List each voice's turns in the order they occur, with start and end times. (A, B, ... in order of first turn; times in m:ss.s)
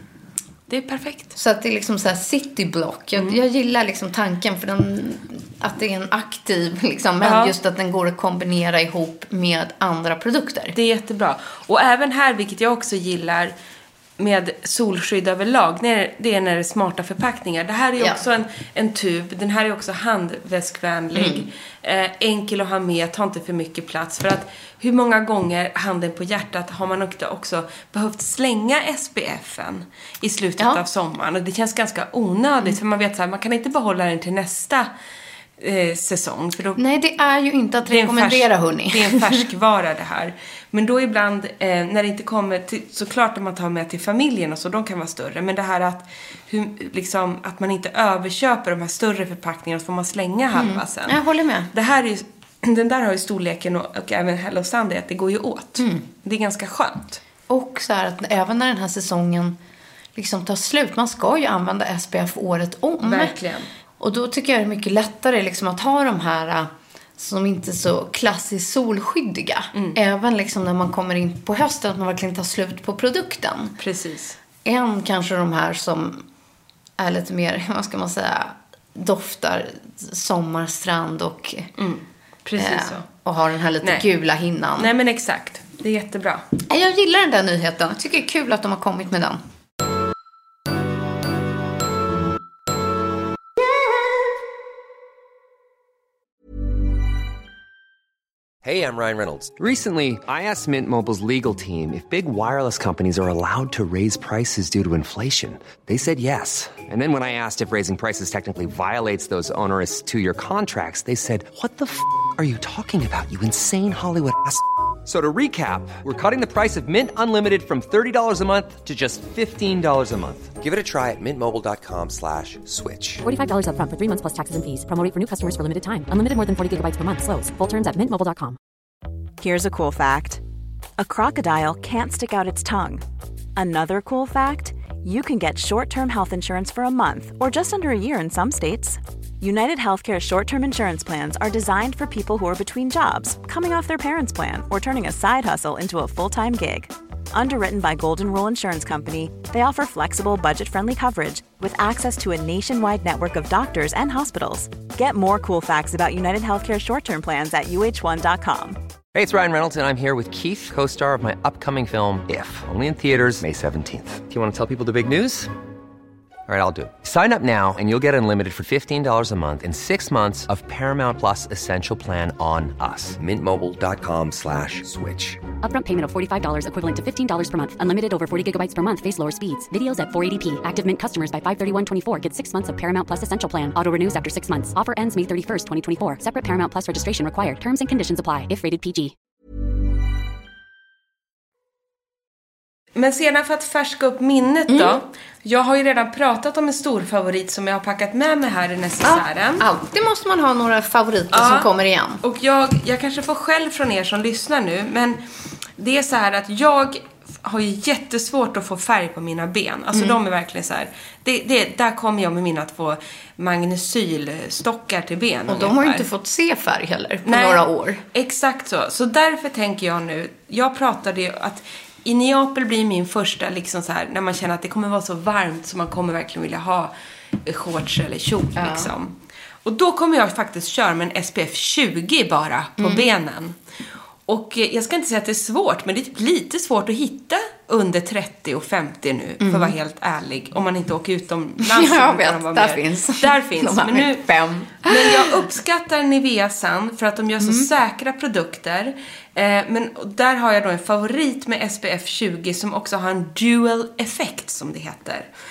0:00.7-0:01.3 A
0:01.4-0:10.7 B
0:07.2-0:07.5 A
0:10.7-0:13.5 A
0:14.2-0:34.9 A
0:21.1-0:21.4 B
0:35.6-0:36.8 A
0:36.8-0:39.4 B
0:37.9-0:51.2 A
0:50.5-0:51.7 B
0:51.7-0:57.2 A
0:55.8-0:56.0 B
0:57.5-0:59.6 B
1:00.1-1:03.3 B
1:03.0-1:03.7 A
1:04.0-1:13.8 B
1:13.8-1:14.4 A
1:14.6-1:16.2 B
1:17.0-1:21.7 B
1:21.8-1:23.0 A
1:22.6-1:24.9 B
1:24.8-1:26.4 A
1:26.6-1:29.4 B
1:38.6-2:03.2 C
2:03.2-2:08.6 D
2:09.4-2:10.4 E
2:11.0-2:13.0 E
2:13.6-2:38.8 E
2:39.1-2:45.5 C
2:46.5-2:55.4 C
2:55.6-3:09.1 D
3:12.9-3:19.6 A
3:14.7-3:15.0 B
3:19.0-3:22.2 B
3:21.3-3:21.7 A
3:22.2-3:25.2 A
3:25.8-3:36.0 A
3:29.9-3:30.2 B
3:35.5-3:38.0 B
3:37.2-3:46.9 A
3:47.4-3:49.1 A
3:48.6-3:48.9 B
3:49.6-3:53.6 A
3:52.8-3:53.0 B
3:54.3-4:04.2 A
3:59.4-3:59.7 B
4:01.6-4:05.4 B
4:04.8-4:15.3 A
4:07.4-4:07.7 B